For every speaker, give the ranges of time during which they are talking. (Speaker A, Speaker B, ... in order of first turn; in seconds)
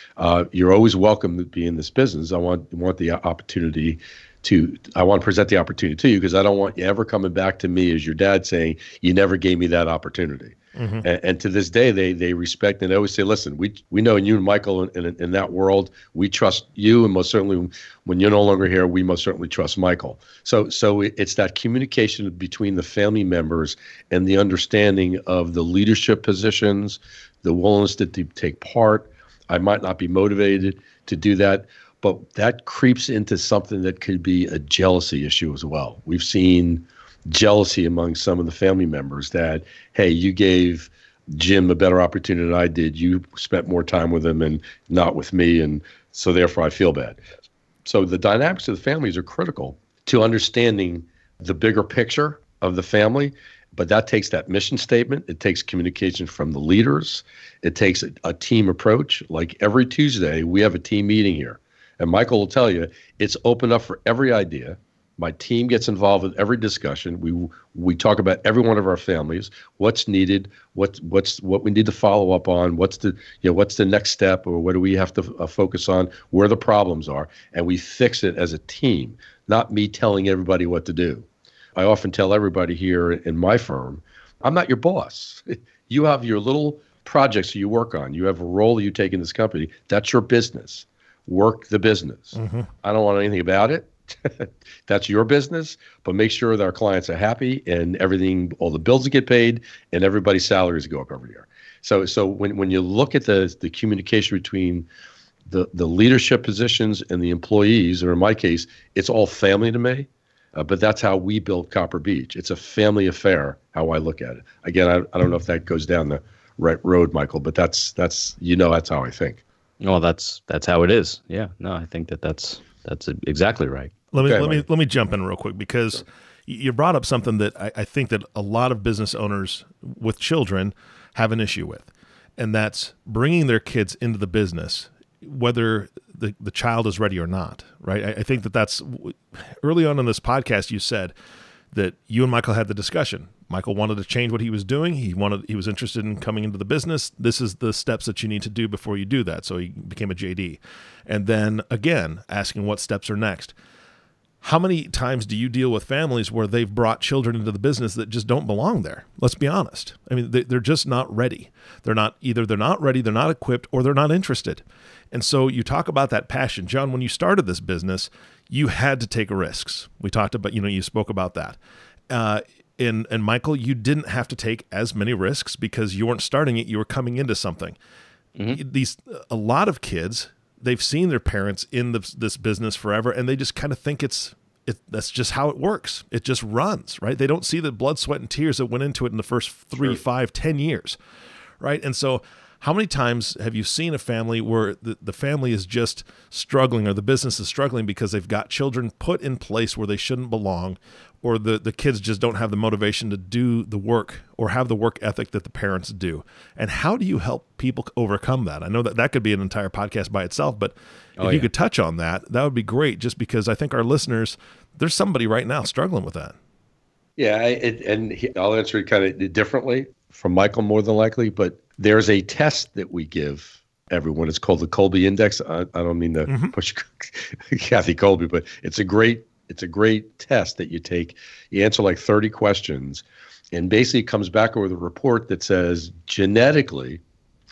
Speaker A: 0.2-47.2, 47.9-104.9, 105.5-119.4, 124.2-124.7, 217.2-237.0
Speaker B: 10.8-11.0, 92.4-92.7, 124.1-141.1, 141.7-153.5, 154.4-171.6, 172.1-177.8, 178.5-191.0, 191.6-216.3, 226.3-226.5
Speaker C: 119.8-123.9, 211.2-211.5